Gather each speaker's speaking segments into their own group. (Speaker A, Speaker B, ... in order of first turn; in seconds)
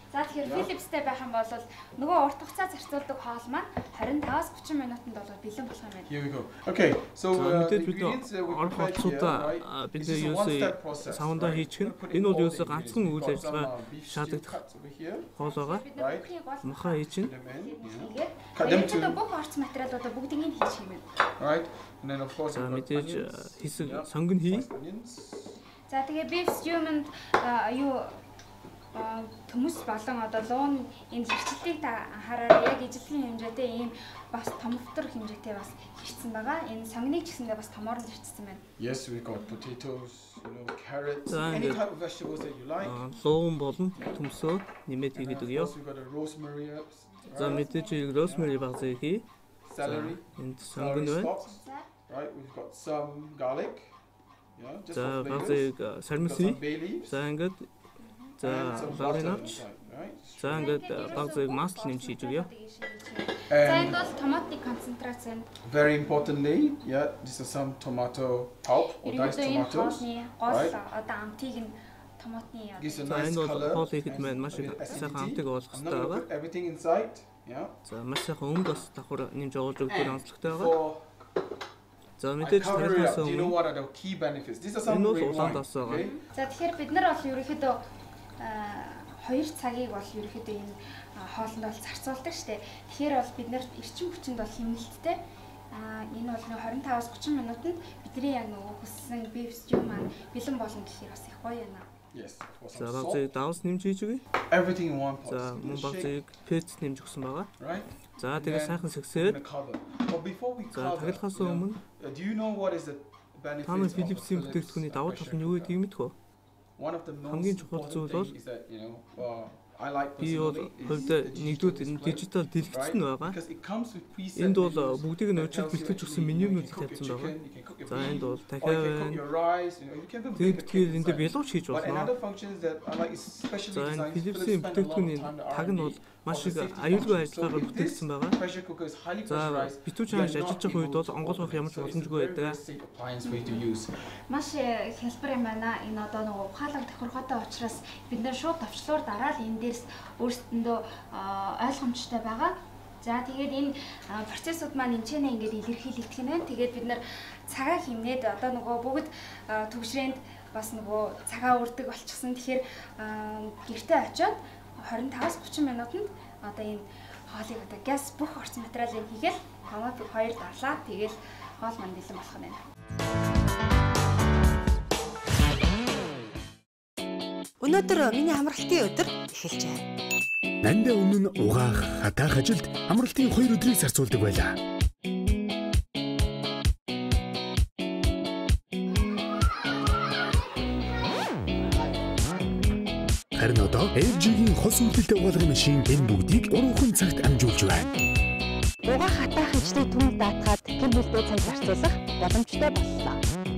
Speaker A: 0.1-6.1, 15.4-21.1, 25.9-28.2, 28.9-38.6, 47.2-48.8, 51.4-51.9, 58.0-59.1, 60.5-65.5, 69.0-73.2, 85.9-87.8, 88.4-95.2, 95.7-101.8, 143.2-143.7, 144.3-172.6
Speaker B: 0.4-0.7, 6.1-15.3, 15.9-16.3, 17.2-19.2, 21.4-25.6, 38.8-43.1, 45.1-47.7, 48.2-48.6, 49.6-53.9, 54.5-57.3, 58.4-61.3, 63.5-64.1, 65.6-70.8, 72.8-77.8, 79.8-81.1, 82.4-86.2, 102.1-103.3, 104.5-106.2, 107.6-115.8, 116.8-144.1
Speaker C: 7.3-14.6, 15.3-15.9, 16.6-17.3, 22.5-24.7, 41.3-41.8, 42.8-45.7, 47.4-49.2, 49.8-51.3, 54.9-57.7, 58.4-59.6, 60.4-62.5, 73.1-76.2, 77.8-80.8, 82.2-83.5, 84.8-86.1, 102.7-104.2, 105.3-107.5, 108.2-109.4, 110.7-111.8, 113.6-116.1, 117.2-118.3, 120.2-123.4, 124.3-129.2, 130.3-132.1, 133.7-138.4, 139.2-142.6
Speaker D: 177.6-179.7, 180.6-184.6, 193.4-197.9, 199.6-199.8
Speaker E: 199.7-203.1